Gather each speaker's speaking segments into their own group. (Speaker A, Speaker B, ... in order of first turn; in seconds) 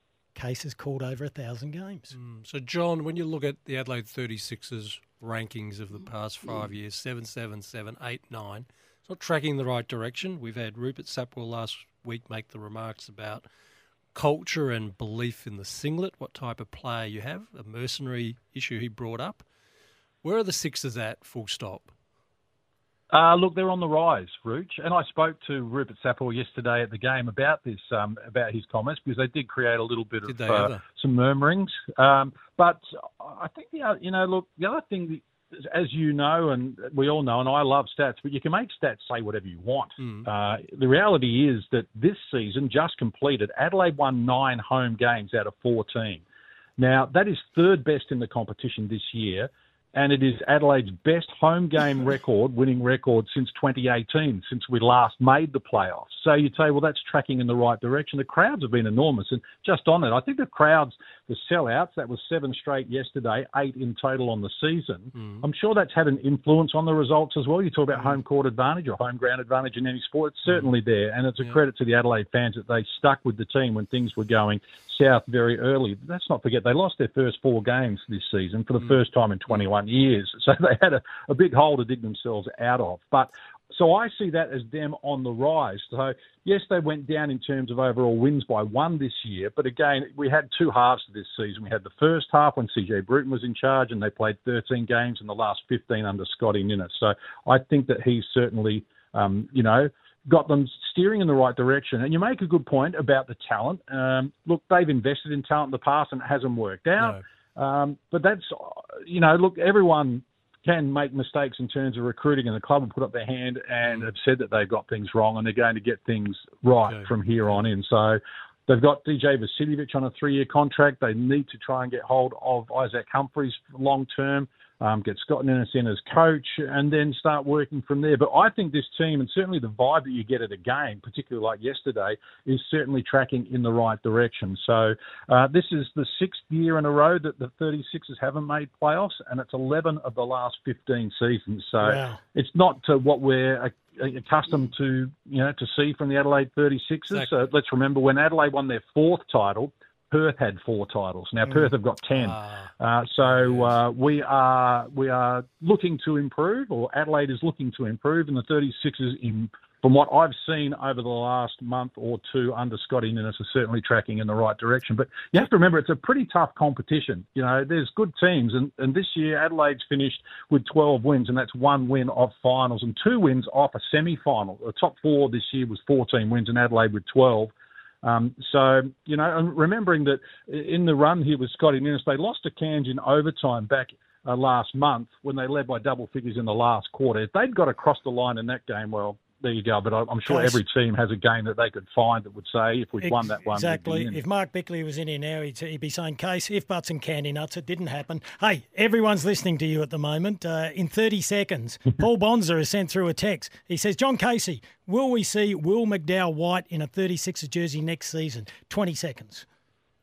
Speaker A: 0.3-2.1, 141.8-142.2, 190.2-190.6, 193.0-209.5
Speaker B: 2.1-13.5, 14.1-19.5, 20.2-21.9, 30.2-30.8, 40.0-40.3, 65.2-65.4, 113.8-114.1, 116.7-117.6, 147.1-147.4, 152.1-153.8
Speaker C: 23.1-46.2, 46.8-177.5, 178.0-194.2